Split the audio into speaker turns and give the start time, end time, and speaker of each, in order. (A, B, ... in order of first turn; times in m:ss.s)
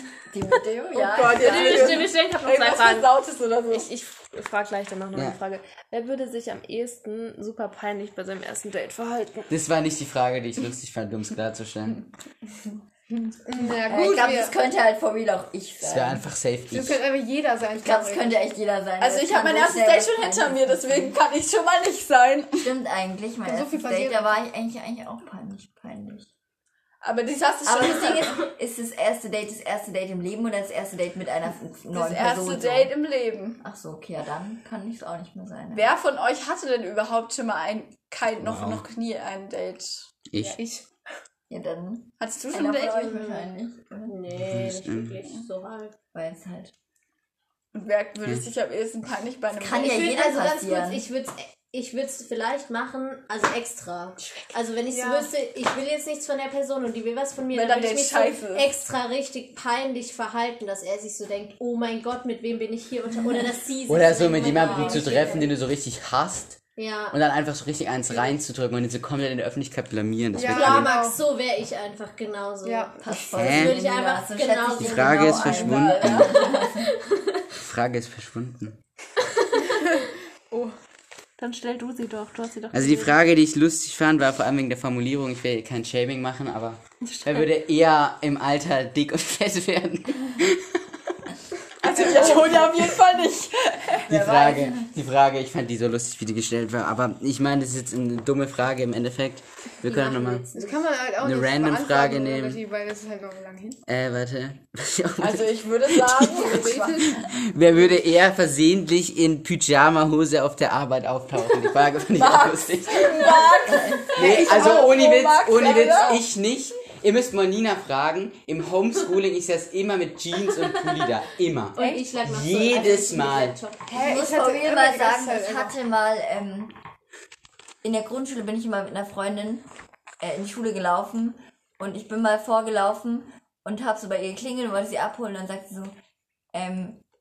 0:00.3-0:02.1 A
0:00.9-0:03.9 B
0:01.3-0:03.1 C
0:03.7-0:09.5 C
0:09.5-0:12.0 D
0:13.4-0:14.5 E
0:13.8-0:16.2 A
0:15.8-0:17.0 D
0:16.7-0:18.3 E
0:17.8-0:21.2 A
0:19.0-0:22.7 B
0:22.6-0:26.3 A
0:23.4-0:24.4 E
0:27.0-0:28.4 B
0:27.6-0:32.9 A
0:31.9-0:33.6 B
0:33.6-0:35.9 A
0:35.7-0:40.1 B
0:38.4-0:38.8 D
0:40.3-0:40.6 D
0:40.4-0:40.8 E
0:41.5-0:44.1 A
0:42.2-0:43.5 B
0:44.0-0:45.9 F
0:44.3-0:45.2 D
0:46.1-0:46.7 A
0:47.7-0:50.1 B
0:49.6-0:51.0 A
0:49.7-1:05.5 F
0:54.9-0:55.3 E
0:57.5-0:58.7 B
1:03.9-1:06.6 D
1:04.6-1:05.4 E
1:06.8-1:07.2 F
1:07.1-1:11.0 D
1:10.3-1:11.2 E
1:10.4-1:12.9 F
1:12.6-1:13.0 E
1:13.0-1:16.9 A
1:13.3-1:13.8 D
1:13.4-1:15.5 F
1:14.8-1:16.3 D
1:15.4-1:16.2 B
1:16.1-1:17.4 F
1:17.6-1:18.8 D
1:21.4-1:23.2 C
1:22.7-1:31.1 D
1:27.0-1:27.4 C
1:31.8-1:34.1 B
1:31.9-1:32.9 D
1:34.1-1:40.5 D
1:34.1-1:34.9 A
1:39.8-1:40.8 F
1:40.5-1:43.8 E
1:41.2-1:42.6 D
1:43.9-1:53.4 D
1:45.2-1:47.1 B
1:46.5-1:47.2 E
1:52.1-1:56.2 B
1:53.3-1:54.4 A
1:54.2-2:03.6 D
1:55.6-1:56.0 E
2:01.8-2:03.9 F
2:03.9-2:05.7 E
2:03.9-2:06.7 A
2:07.8-2:09.6 A
2:10.2-2:15.9 A
2:16.5-2:17.0 A